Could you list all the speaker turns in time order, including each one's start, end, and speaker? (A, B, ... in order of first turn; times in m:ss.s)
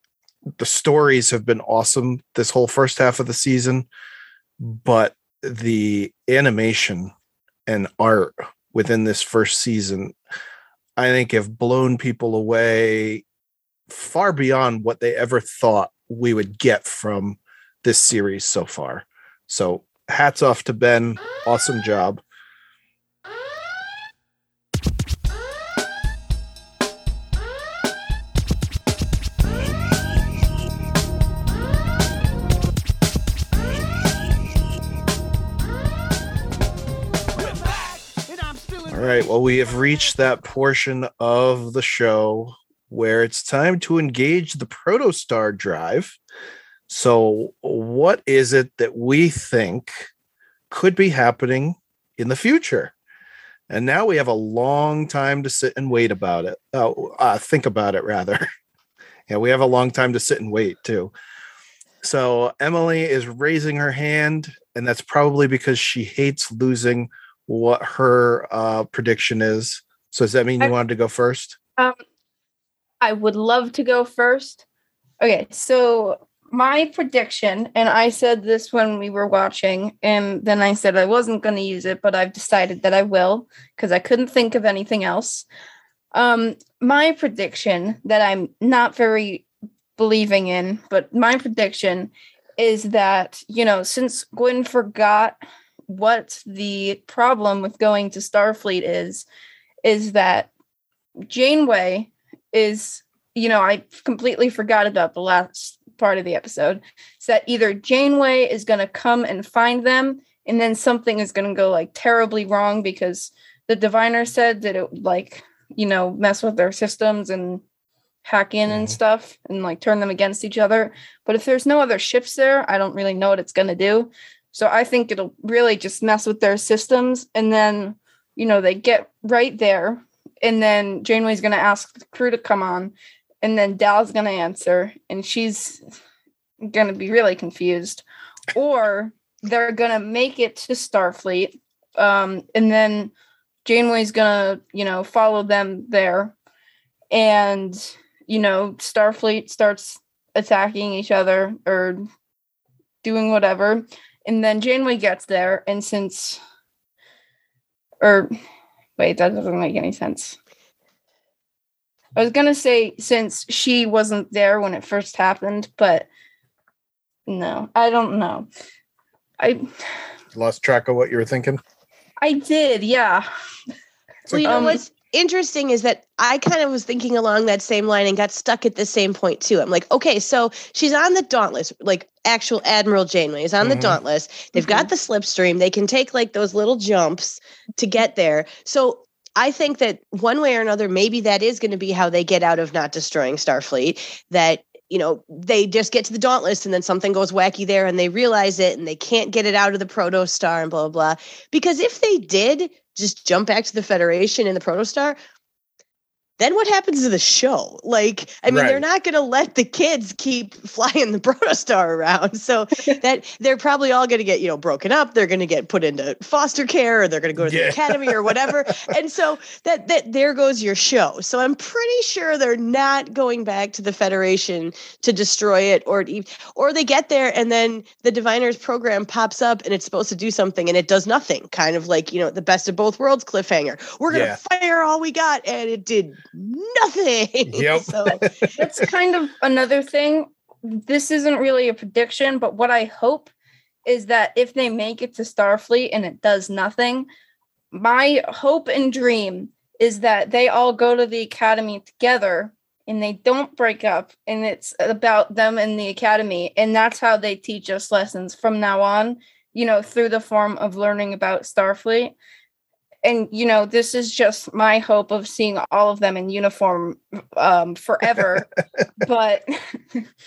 0:00.6-0:03.9 A
0:04.6-0:07.1 A
0:07.7-0:10.2 A
0:11.0-0:13.2 A
0:13.9-0:22.2 A
0:38.8-0:46.2 A
0:46.9-0:50.0 A
0:50.7-0:52.9 A
0:53.7-0:58.5 A
0:59.3-1:01.1 A
1:02.0-1:11.6 A
1:13.0-1:14.6 B
1:15.2-1:25.4 B
1:26.1-1:29.4 B
1:30.0-1:39.2 B
1:39.8-1:40.5 B
1:41.2-1:57.6 B
1:58.2-2:15.8 B
1:58.7-1:59.0 A
2:16.6-2:18.0 B
2:18.5-2:23.1 B
2:23.6-2:26.3 B
2:27.1-2:32.0 B
2:33.0-2:36.4 B
2:38.0-2:38.3 B
2:39.0-2:40.4 B
2:42.2-2:46.1 B
2:47.3-2:48.5 B
2:49.4-2:49.7 B
2:50.3-2:51.6 A
2:52.2-2:53.3 B
2:54.3-2:54.7 A
2:54.3-3:25.2 C
2:54.4-2:54.8 B
3:03.6-3:04.0 A
3:04.5-3:04.9 B
3:26.4-3:58.2 C
3:28.5-3:28.8 A
3:37.4-3:38.7 A
3:54.1-3:54.4 A
3:57.5-3:58.7 A
3:58.6-4:03.3 B
4:03.8-4:07.1 B
4:07.7-4:22.2 B
4:23.0-4:30.0 B